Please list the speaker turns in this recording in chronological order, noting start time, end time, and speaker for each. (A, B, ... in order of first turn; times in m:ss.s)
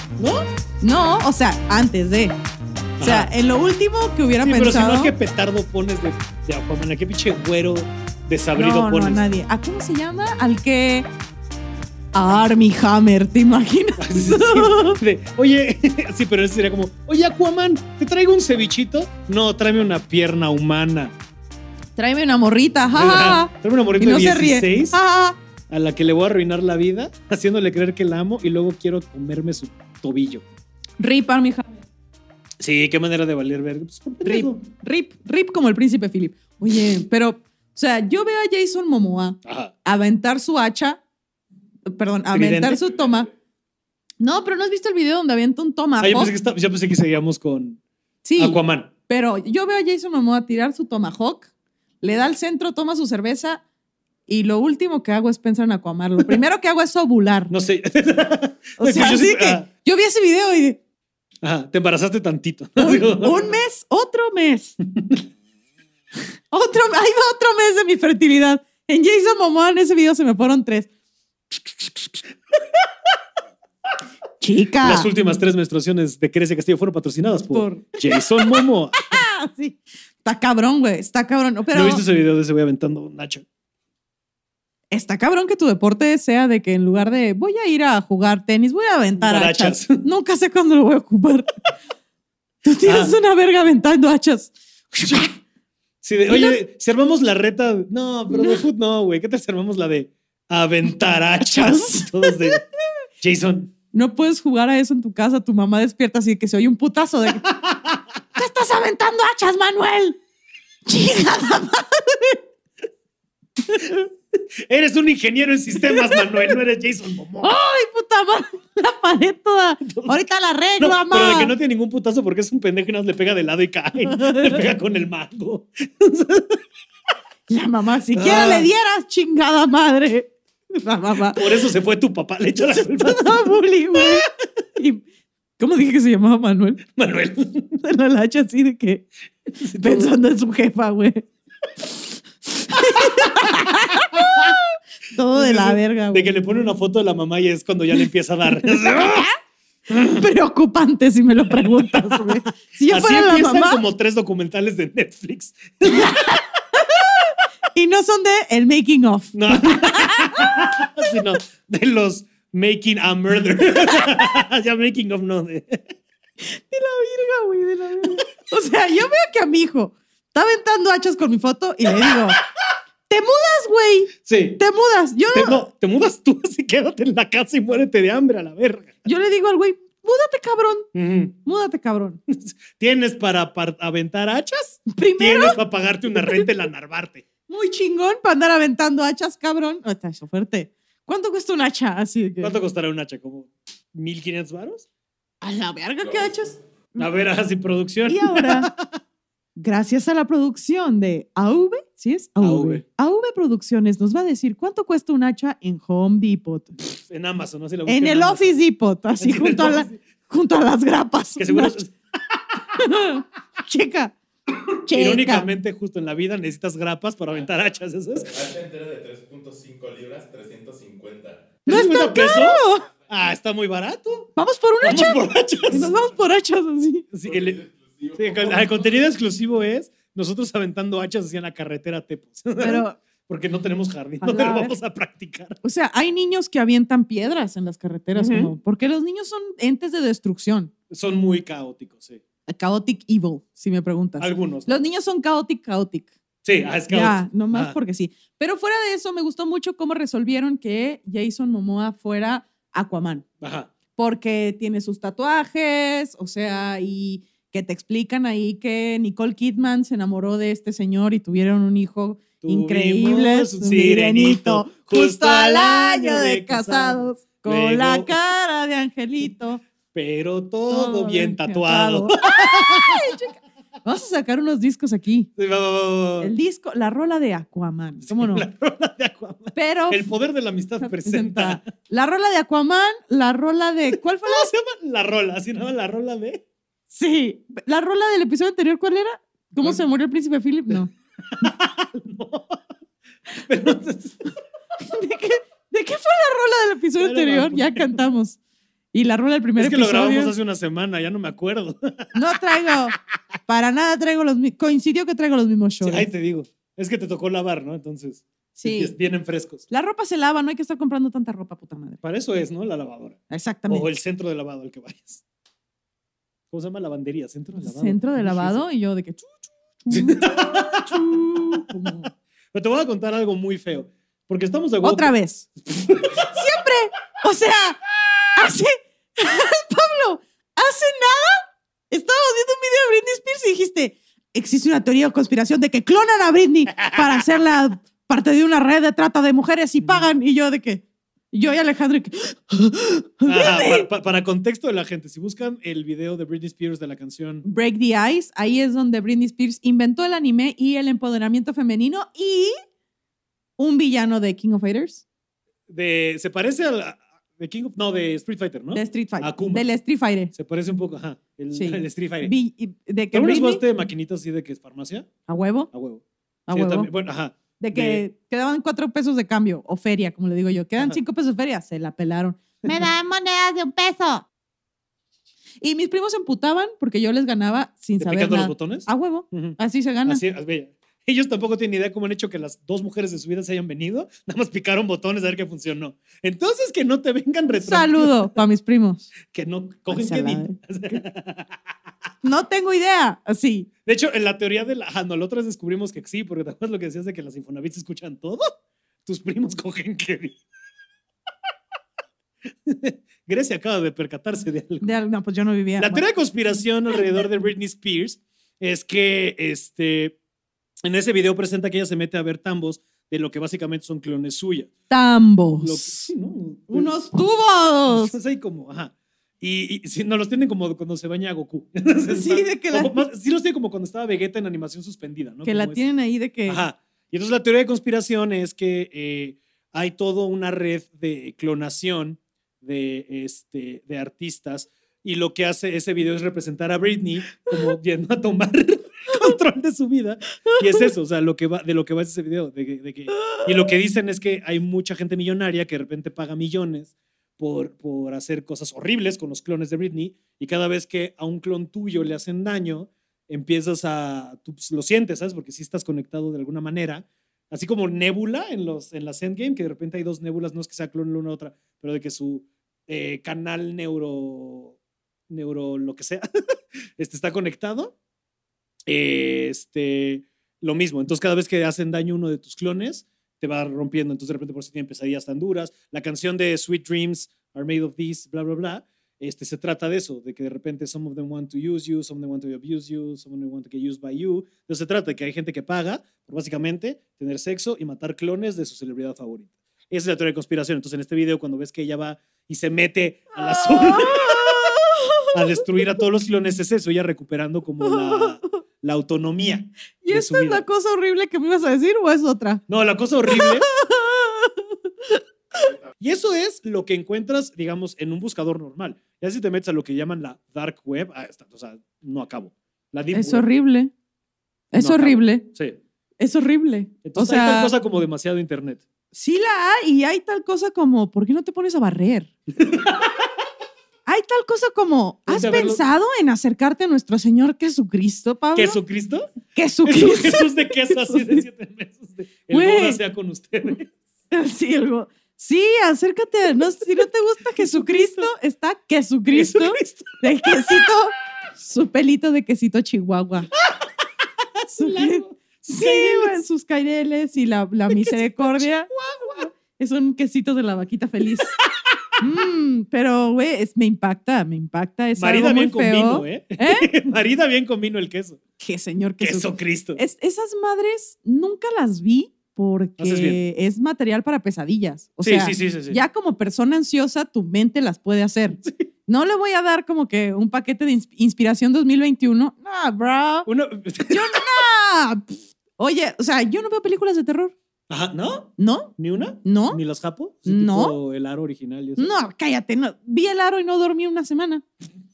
0:00.2-0:00.5 A
0:00.8-0:02.4 B
0:03.0-0:03.3 A
0:03.0-0:05.1 B
0:04.4-0:09.2 A
0:08.5-0:11.1 B
0:12.1-0:15.0 B
0:14.0-0:21.1 A
0:22.0-0:25.4 B
0:22.9-0:25.0 A
0:25.7-0:30.4 A
0:31.0-0:31.8 B
0:32.6-0:34.6 A
0:34.2-0:41.0 B
0:39.4-0:39.7 A
0:41.9-0:43.3 B
0:42.3-0:42.8 A
0:44.2-0:46.3 B
0:46.0-0:47.8 A
0:48.2-0:51.5 B
0:48.4-0:48.9 A
0:52.0-0:53.6 B
0:54.3-0:57.5 B
0:57.5-0:59.7 A
0:58.8-1:00.8 B
1:01.4-1:03.5 A
1:02.8-1:04.8 B
1:04.9-1:05.2 A
1:06.5-1:10.9 B
1:14.4-1:15.1 B
1:14.8-1:19.2 A
1:17.5-1:22.0 B
1:21.7-1:23.4 A
1:24.9-1:31.5 B
1:29.2-1:30.0 A
1:32.6-1:35.3 B
1:32.8-1:33.1 A
1:36.0-1:42.6 A
1:36.3-1:36.6 B
1:38.3-1:38.6 B
1:41.4-1:42.6 B
1:43.2-1:43.7 A
1:43.9-1:47.4 B
1:47.4-1:48.0 A
1:48.4-1:50.2 B
1:50.8-1:52.4 B
1:53.7-1:54.0 B
1:53.8-1:57.5 A
1:55.8-1:56.5 B
1:57.4-2:01.5 B
1:59.9-2:00.1 A
2:00.8-2:06.6 A
2:04.0-2:04.6 B
2:07.5-2:11.6 B
2:08.1-2:08.7 A
2:11.3-2:13.4 A
2:12.7-2:15.0 B
2:13.9-2:14.2 A
2:15.6-2:16.8 B
2:16.9-2:17.8 A
2:17.8-2:19.0 B
2:19.6-2:20.1 A
2:19.7-2:21.2 B
2:22.6-2:26.3 B
2:22.7-2:24.5 A
2:25.3-2:29.2 A
2:28.6-2:29.3 B
2:29.9-2:30.2 A
2:30.0-2:33.8 B
2:31.5-2:36.4 A
2:35.9-2:41.1 B
2:39.3-2:45.9 A
2:43.8-2:44.1 B
2:46.4-2:52.4 B
2:51.9-2:52.3 A
2:53.1-2:55.6 B
2:54.2-2:54.6 A
2:55.3-2:58.9 A
2:59.0-3:00.9 B
3:00.9-3:01.4 A
3:01.4-3:02.2 B
3:02.3-3:07.2 A
3:04.9-3:05.6 B
3:06.1-3:06.5 B
3:07.5-3:12.5 B
3:12.4-3:14.9 A
3:15.4-3:17.1 B
3:16.1-3:16.4 C
3:17.0-3:18.9 A
3:18.0-3:18.7 B
3:19.6-3:26.8 B
3:22.4-3:22.8 A
3:26.9-3:28.5 A
3:27.8-3:31.8 B
3:29.2-3:30.0 A
3:31.4-3:32.6 A
3:32.8-3:34.2 B
3:34.8-3:35.5 B
3:34.9-3:38.3 A
3:38.2-3:41.5 C
3:41.6-3:44.3 A
3:41.7-3:42.9 B
3:44.4-3:47.0 B
3:44.8-3:45.9 A
3:47.1-3:47.6 A
3:47.2-3:49.0 C
3:48.2-3:55.6 A
3:52.6-3:53.0 B
3:54.2-3:54.7 B
3:55.6-4:00.7 B
3:58.1-3:58.5 A
4:00.9-4:02.2 A
4:02.5-4:06.1 B
4:04.2-4:04.8 A
4:06.4-4:07.8 A
4:06.9-4:13.2 B
4:13.4-4:13.7 A
4:14.0-4:29.6 B
4:22.4-4:28.1 A
4:29.9-4:33.2 A
4:30.7-4:35.3 B
4:35.4-4:36.3 A
4:36.2-4:38.5 B
4:38.0-4:41.7 A
4:39.5-4:40.1 B
4:40.8-4:44.5 B
4:44.2-4:46.4 A
4:46.9-4:51.5 B
4:51.3-4:52.6 A
4:53.5-4:54.2 A
4:54.8-4:58.4 B
4:57.0-4:58.0 A
4:58.9-5:00.3 B
4:59.6-5:02.1 A
5:02.1-5:06.1 B
5:05.8-5:09.6 A
5:08.6-5:08.9 B
5:09.7-5:12.0 B
5:12.0-5:13.2 A
5:13.3-5:13.9 B
5:13.7-5:15.2 A
5:16.5-5:18.6 A
5:17.6-5:22.1 B
5:19.9-5:21.9 A
5:22.5-5:26.4 A
5:24.8-5:25.5 B
5:26.2-5:27.8 B
5:28.3-5:43.9 B
5:36.7-5:37.2 A
5:39.8-5:40.0 A
5:43.2-5:47.4 A
5:47.4-5:52.5 B
5:53.6-5:55.0 B
5:55.7-5:59.6 A
5:58.7-6:00.3 B
6:00.3-6:02.3 A
6:01.5-6:03.6 B
6:03.1-6:05.1 A
6:05.3-6:05.7 B
6:05.7-6:08.0 A
6:06.5-6:06.9 B
6:07.6-6:14.2 B
6:12.6-6:12.9 A
6:15.6-6:20.2 B
6:18.0-6:28.2 A
6:27.6-6:29.1 B
6:29.3-6:31.6 A
6:29.9-6:31.0 B
6:32.2-6:33.7 B
6:33.8-6:38.5 A
6:39.0-6:40.4 A
6:42.6-6:44.9 A
6:44.8-6:46.0 B
6:45.8-6:50.2 A
6:50.8-6:54.7 A
6:54.9-6:56.1 B
6:55.6-6:56.9 A
6:56.7-6:58.2 B
6:57.9-7:05.9 A
7:02.1-7:03.0 B
7:05.4-7:06.6 B
7:06.5-7:44.8 A
7:17.4-7:17.7 B
7:19.1-7:19.3 B
7:20.4-7:20.9 B
7:23.1-7:23.7 B
7:45.3-7:46.2 A
7:47.0-7:47.9 A
7:48.9-8:14.8 A
8:13.4-8:15.7 B
8:15.3-8:20.6 A
8:17.8-8:18.6 B
8:20.0-8:22.6 B
8:22.7-8:23.7 A
8:23.3-8:25.7 B
8:26.0-8:33.4 A
8:33.1-8:33.9 B
8:34.7-8:35.5 B
8:34.8-8:35.8 A
8:36.2-8:37.7 B
8:37.0-8:38.8 A
8:39.1-8:42.3 B
8:42.6-8:43.3 A
8:44.0-8:48.8 B
8:45.3-8:45.8 A
8:48.6-8:49.3 A
8:49.5-8:51.4 B
8:49.8-8:53.9 A
8:52.5-8:53.0 B
8:54.3-9:03.5 B
8:57.6-8:58.3 A
8:59.3-9:00.8 A
9:04.6-9:06.4 A
9:04.8-9:08.9 B
9:07.9-9:09.5 A
9:09.6-9:11.6 B
9:11.6-9:12.0 A
9:12.2-9:16.9 B
9:15.2-9:18.4 A
9:18.6-9:33.5 B
9:19.2-9:20.0 A
9:23.0-9:23.4 A
9:25.2-9:26.0 A
9:33.4-9:34.4 A
9:34.1-9:37.5 B
9:37.9-9:42.1 A
9:38.6-9:38.9 B
9:39.4-9:39.8 B
9:40.4-9:41.0 B
9:42.0-9:44.6 B